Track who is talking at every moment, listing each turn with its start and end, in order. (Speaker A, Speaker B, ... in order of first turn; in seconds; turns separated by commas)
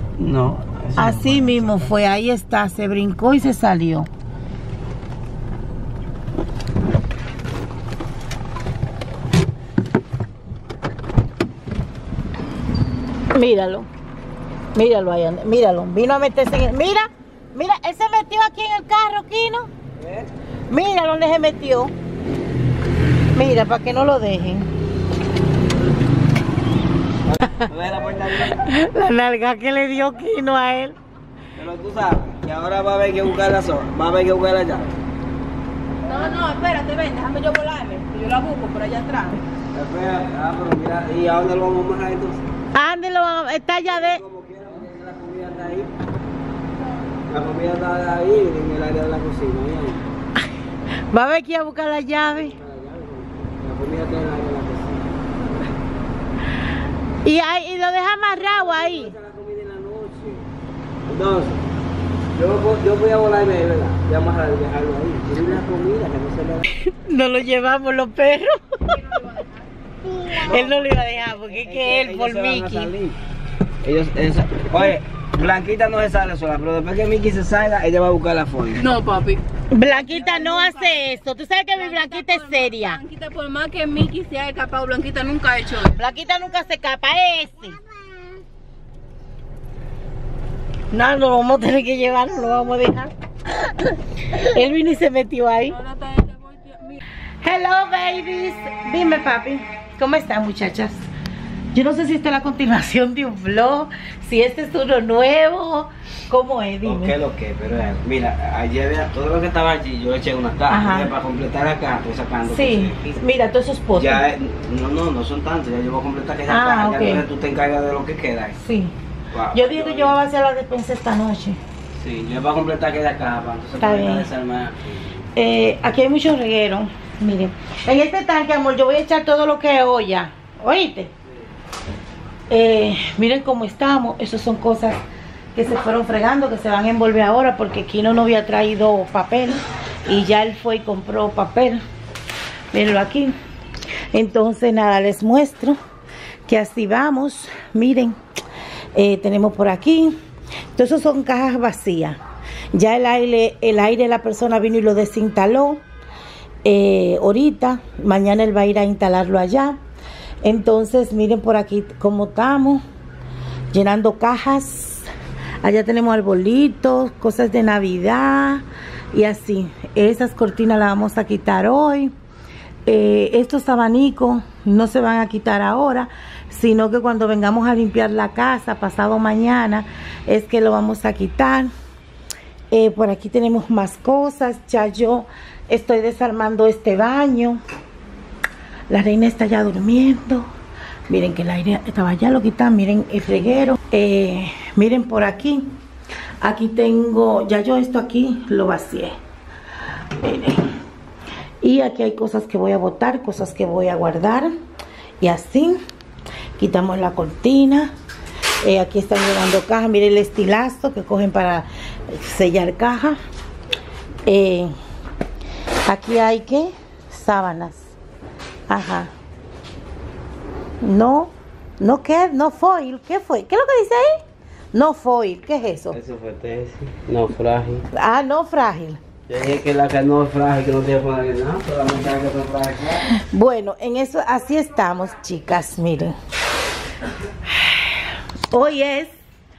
Speaker A: 0.2-1.9, Speaker B: 1.0-4.1, Speaker B: 13.3-13.9, Speaker B: 14.7-19.7, Speaker A: 20.0-20.3, Speaker B: 20.7-21.9, Speaker B: 23.3-24.7, Speaker A: 27.3-28.6, Speaker B: 28.4-30.9, Speaker A: 31.6-35.0, Speaker C: 36.0-39.4, Speaker A: 39.7-42.4, Speaker B: 42.7-44.2, Speaker A: 43.8-45.9, Speaker A: 47.3-50.0, Speaker B: 51.1-52.5, Speaker A: 52.3-55.1, Speaker B: 57.2-59.1, Speaker A: 58.5-60.5, Speaker A: 61.1-61.6, Speaker A: 62.3-66.6, Speaker B: 66.8-69.3, Speaker B: 70.3-72.9, Speaker A: 70.4-73.2, Speaker A: 73.8-78.9, Speaker C: 78.8-79.4, Speaker B: 79.7-83.0, Speaker C: 80.0-81.0, Speaker C: 81.7-86.0, Speaker B: 85.8-87.8, Speaker B: 90.9-93.1, Speaker B: 93.6-95.8, Speaker C: 95.8-97.0, Speaker B: 97.4-101.1, Speaker B: 101.7-107.1, Speaker A: 106.8-113.2, Speaker B: 110.7-111.1, Speaker B: 112.4-114.2, Speaker A: 114.0-118.6, Speaker B: 116.5-117.2, Speaker B: 118.6-118.9, Speaker A: 119.3-120.2, Speaker B: 119.5-121.6, Speaker A: 122.0-125.2, Speaker B: 123.8-124.3, Speaker B: 125.3-131.1, Speaker B: 132.5-135.0, Speaker B: 135.5-141.8, Speaker B: 142.7-143.3, Speaker B: 144.1-145.8, Speaker B: 146.4-148.2, Speaker B: 148.9-150.1, Speaker B: 150.7-152.2, Speaker B: 152.7-155.8, Speaker B: 156.6-159.8, Speaker B: 160.4-162.8, Speaker B: 163.7-165.1, Speaker B: 165.6-172.1, Speaker B: 172.8-181.7, Speaker B: 182.7-187.6, Speaker B: 188.9-190.5, Speaker B: 191.1-195.7, Speaker B: 196.4-199.1, Speaker B: 200.2-200.6, Speaker B: 201.6-204.5, Speaker B: 205.2-205.8, Speaker B: 206.6-207.9, Speaker B: 208.6-213.2, Speaker B: 214.2-214.7, Speaker B: 215.8-217.9, Speaker B: 218.7-219.1, Speaker B: 220.8-224.2, Speaker B: 224.7-226.0, Speaker A: 225.9-227.8, Speaker B: 227.9-229.0, Speaker A: 229.3-233.0, Speaker B: 233.1-236.1, Speaker B: 237.6-237.9, Speaker B: 238.5-239.1